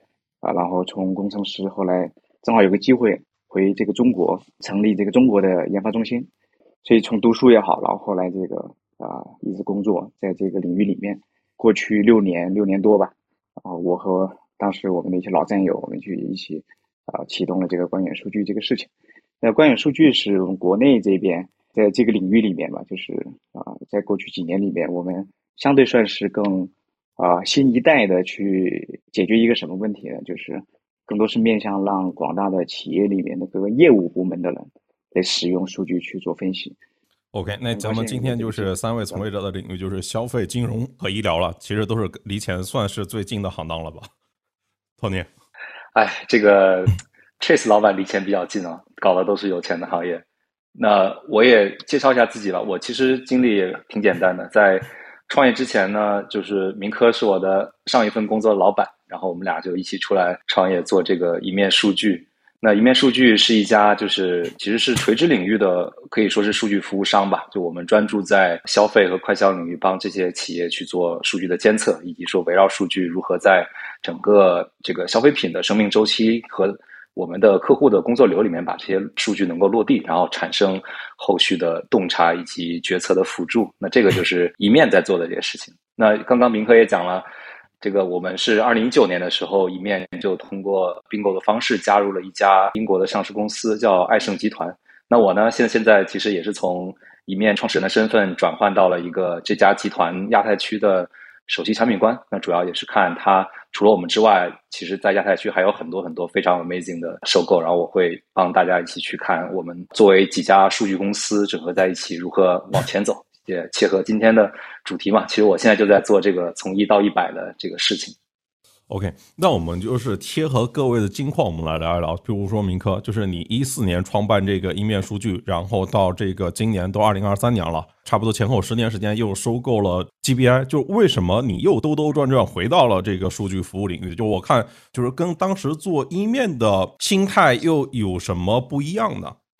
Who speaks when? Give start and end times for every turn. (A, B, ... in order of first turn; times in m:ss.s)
0:00.4-0:06.3 A
0:06.8-0:18.9 A
0:19.4-0:36.8 A
0:37.3-0:44.1 B
0:37.7-0:39.2 A
0:45.0-0:45.3 B
0:45.9-0:50.2 C
0:50.7-1:27.2 C
1:27.8-1:58.1 C
1:58.9-2:19.3 B